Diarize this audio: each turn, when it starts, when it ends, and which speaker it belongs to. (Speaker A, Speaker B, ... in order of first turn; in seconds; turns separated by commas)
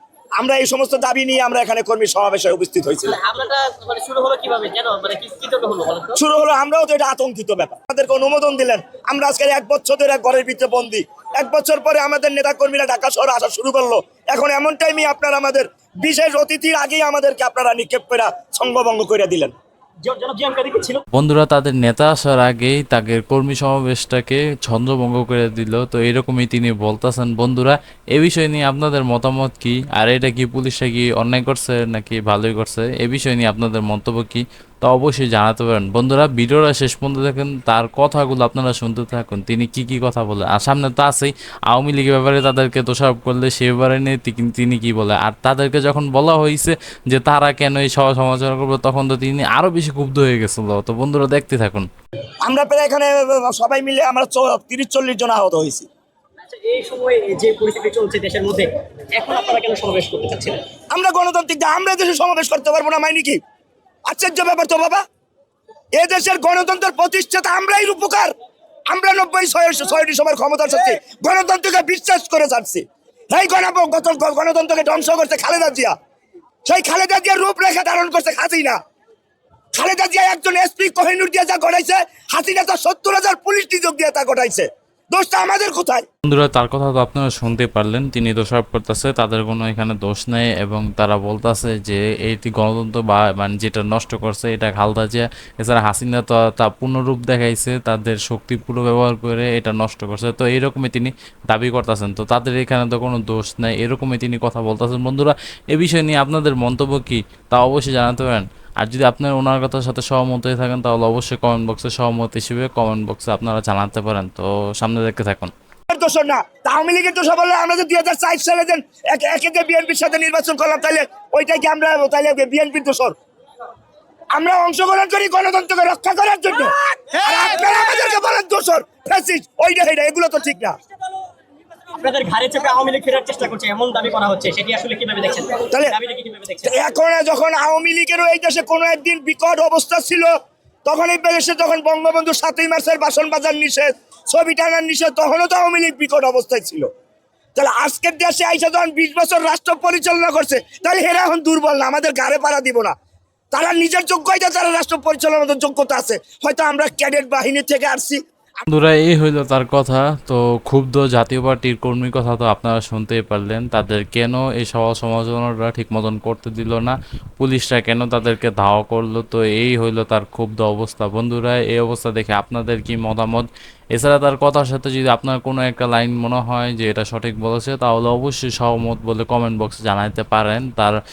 Speaker A: 0.4-3.2, Speaker B: 3.1-6.2, Speaker A: 6.2-19.5, Speaker B: 20.1-21.0, Speaker C: 21.1-51.9, Speaker A: 52.4-55.9, Speaker B: 56.4-60.6, Speaker A: 60.9-63.4, Speaker A: 64.1-65.0, Speaker A: 66.0-68.3, Speaker A: 68.9-76.0, Speaker A: 76.7-78.8, Speaker A: 79.8-86.1, Speaker C: 86.2-115.5, Speaker A: 115.9-123.2, Speaker A: 124.3-130.8, Speaker B: 131.9-136.8, Speaker A: 136.6-140.3, Speaker A: 140.9-146.9, Speaker A: 147.6-152.9, Speaker A: 153.5-158.2, Speaker C: 158.7-181.0